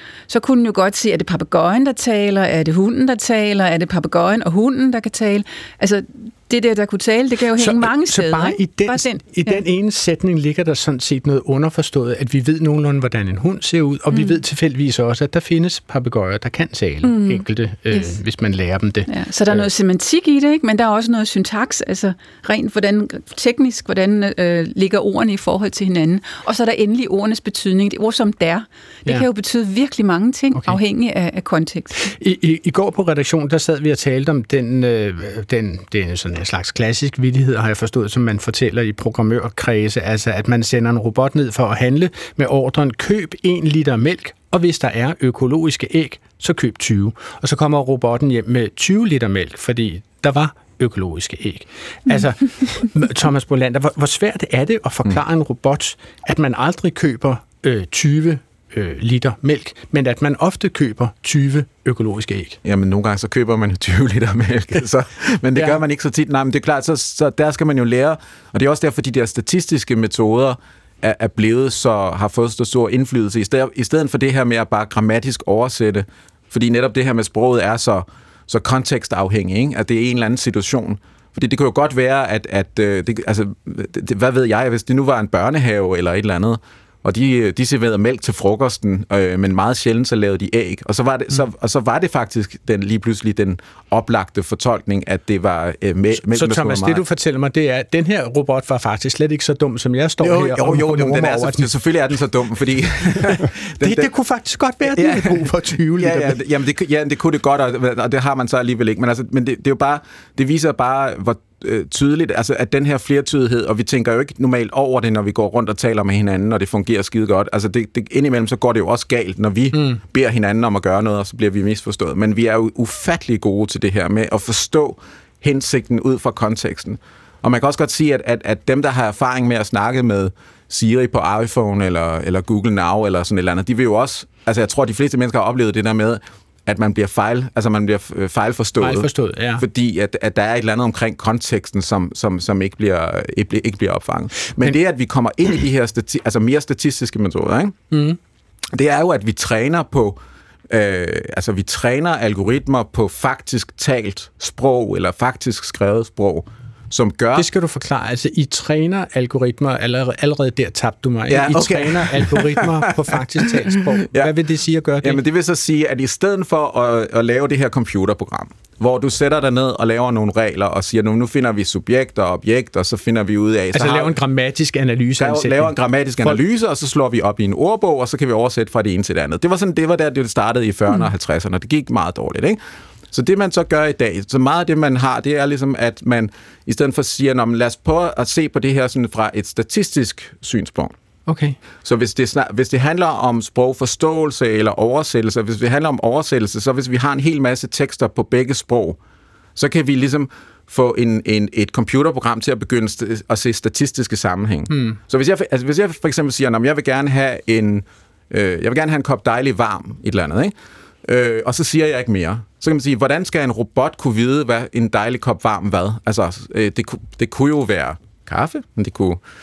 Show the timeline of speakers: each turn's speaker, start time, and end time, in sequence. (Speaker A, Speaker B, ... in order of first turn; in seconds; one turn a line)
Speaker A: 0.3-9.6
Speaker B: 7.6-19.7
Speaker A: 14.1-14.4
Speaker A: 17.0-18.1
Speaker A: 19.1-32.1
Speaker B: 32.0-62.6
Speaker C: 62.6-97.0
Speaker B: 96.2-101.7
Speaker C: 100.2-104.1
Speaker B: 103.2-106.4
Speaker C: 104.9-147.8
Speaker B: 119.7-120.0
Speaker B: 138.8-139.6
Speaker B: 147.9-148.2
Speaker C: 148.7-150.2
Speaker C: 150.7-157.5
Speaker B: 157.3-165.2
Speaker C: 161.3-164.3
Speaker C: 165.0-174.1
Speaker B: 173.7-176.4
Speaker C: 175.2-182.6
Speaker C: 183.1-190.9
Speaker B: 191.3-191.6
Speaker C: 191.8-199.0
Speaker C: 199.6-210.5
Speaker B: 204.7-205.0
Speaker C: 211.0-219.2